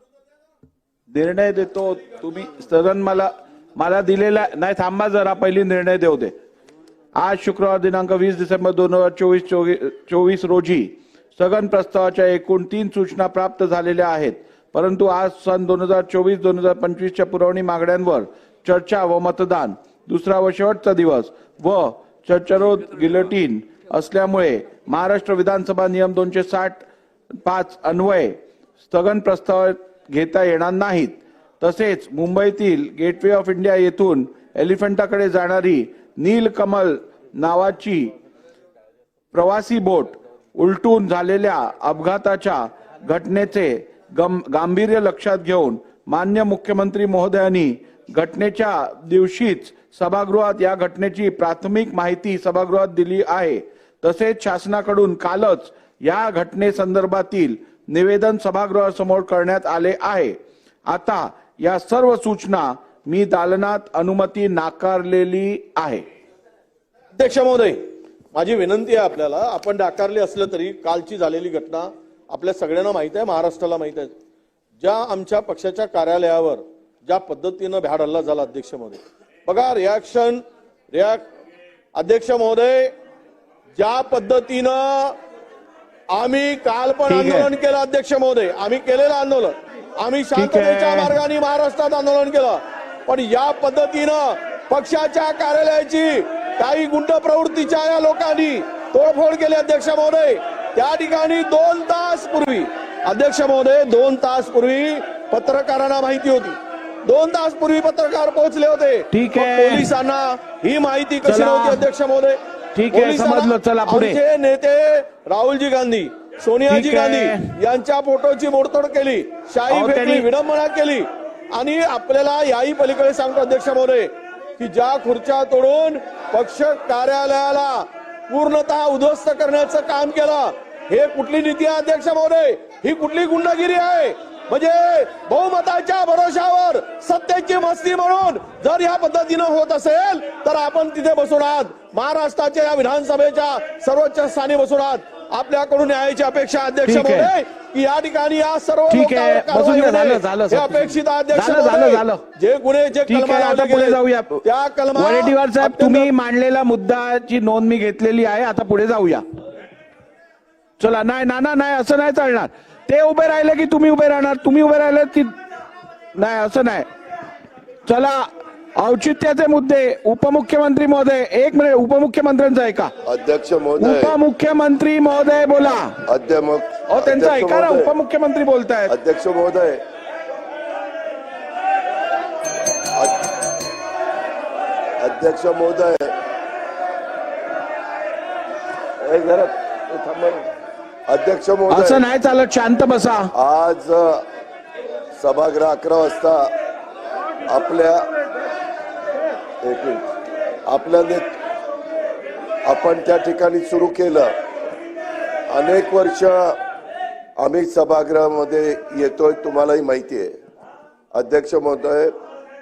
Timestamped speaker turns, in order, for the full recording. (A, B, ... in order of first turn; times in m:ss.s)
0:01.1-0:06.3 A
0:07.2-0:26.8 A
0:27.4-0:38.1 A
0:39.3-1:00.4 A
1:00.9-1:06.0 A
1:07.2-1:07.8 B
1:08.3-1:14.1 B
1:14.8-1:21.3 B
1:22.0-1:22.9 B
1:23.8-1:25.2 B
1:26.1-1:52.4 B
1:27.1-1:27.5 A
1:30.4-1:31.1 A
1:49.1-1:49.9 A
1:51.2-1:51.8 A
1:52.8-1:54.2 A
1:52.9-2:36.1 B
1:56.7-1:57.5 A
1:59.7-2:00.3 A
2:26.8-2:27.3 A
2:28.9-2:32.2 A
2:33.1-2:39.2 A
2:40.8-2:45.3 A
2:46.2-2:46.9 A
2:47.9-2:52.9 A
2:53.0-2:54.2 C
2:53.8-2:56.0 A
2:56.1-2:57.9 C
2:56.9-2:59.0 A
2:58.9-2:59.8 C
3:05.0-3:06.2 C
3:09.0-3:10.5 C
3:11.1-3:12.0 C
3:11.7-3:13.3 A
3:13.4-3:14.2 C
3:15.2-3:16.5 C
3:17.5-3:18.1 C
3:19.6-3:20.1 C
3:20.7-3:21.3 C
3:22.6-3:24.3 C
3:25.5-3:26.6 C
3:27.4-3:30.4 C
3:31.1-3:32.2 C